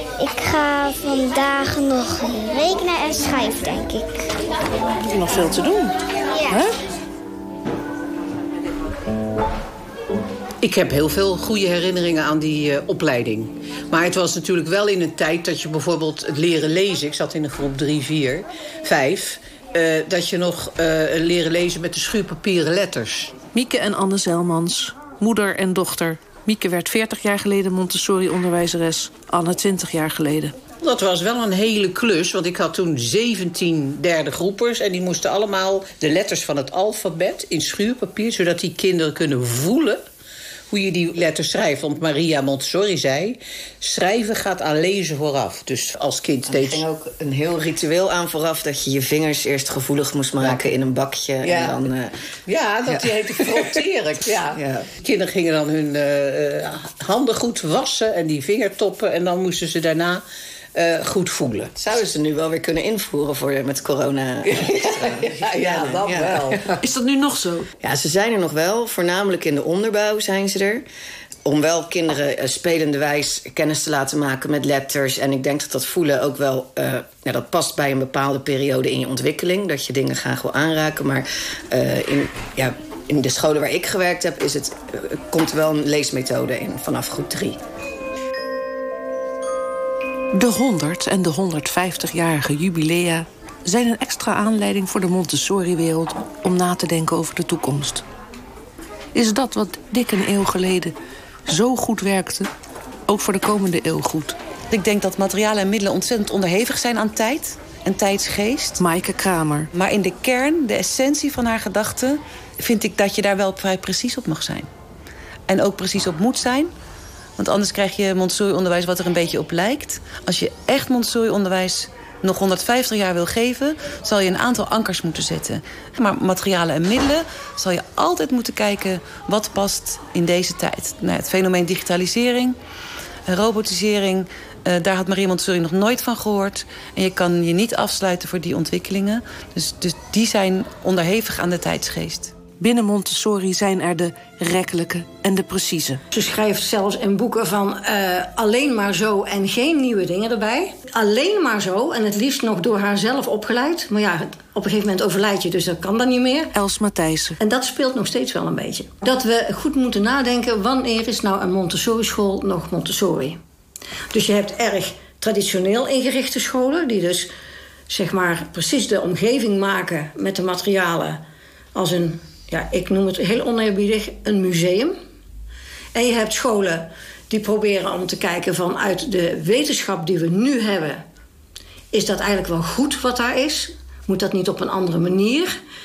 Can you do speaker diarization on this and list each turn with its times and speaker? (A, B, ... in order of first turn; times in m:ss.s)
0:00.2-0:04.3 A
0:05.0-0:06.0 B
0:06.5-0:06.8 B
0:10.6-0:23.3 C
0:23.5-0:30.5 B
0:30.8-0:40.0 C
0:40.7-0:46.8 C
0:46.5-0:52.1 D
0:51.4-0:51.9 C
0:52.5-1:00.2 C
0:52.9-0:53.8 D
0:54.5-0:54.9 D
1:00.8-1:01.7 C
1:01.8-1:06.7 D
1:04.5-1:06.8 C
1:06.8-1:07.4 B
1:07.8-1:10.8 D
1:11.5-1:27.6 D
1:30.3-1:38.0 B
1:39.1-1:40.9 B
1:41.5-1:42.5 B
1:43.1-1:44.4 B
1:44.7-1:48.8 E
1:48.8-1:49.7 B
1:49.7-1:54.7 E
1:55.5-1:56.7 E
1:57.4-2:12.6 E
2:13.3-2:22.3 E
2:22.6-2:26.0 B
2:26.1-2:36.5 F
2:36.5-2:37.4 B
2:37.4-2:43.4 F
2:44.1-2:47.3 F
2:47.9-2:51.2 F
2:51.7-2:55.0 F
2:56.0-3:01.0 F
3:01.9-3:05.6 F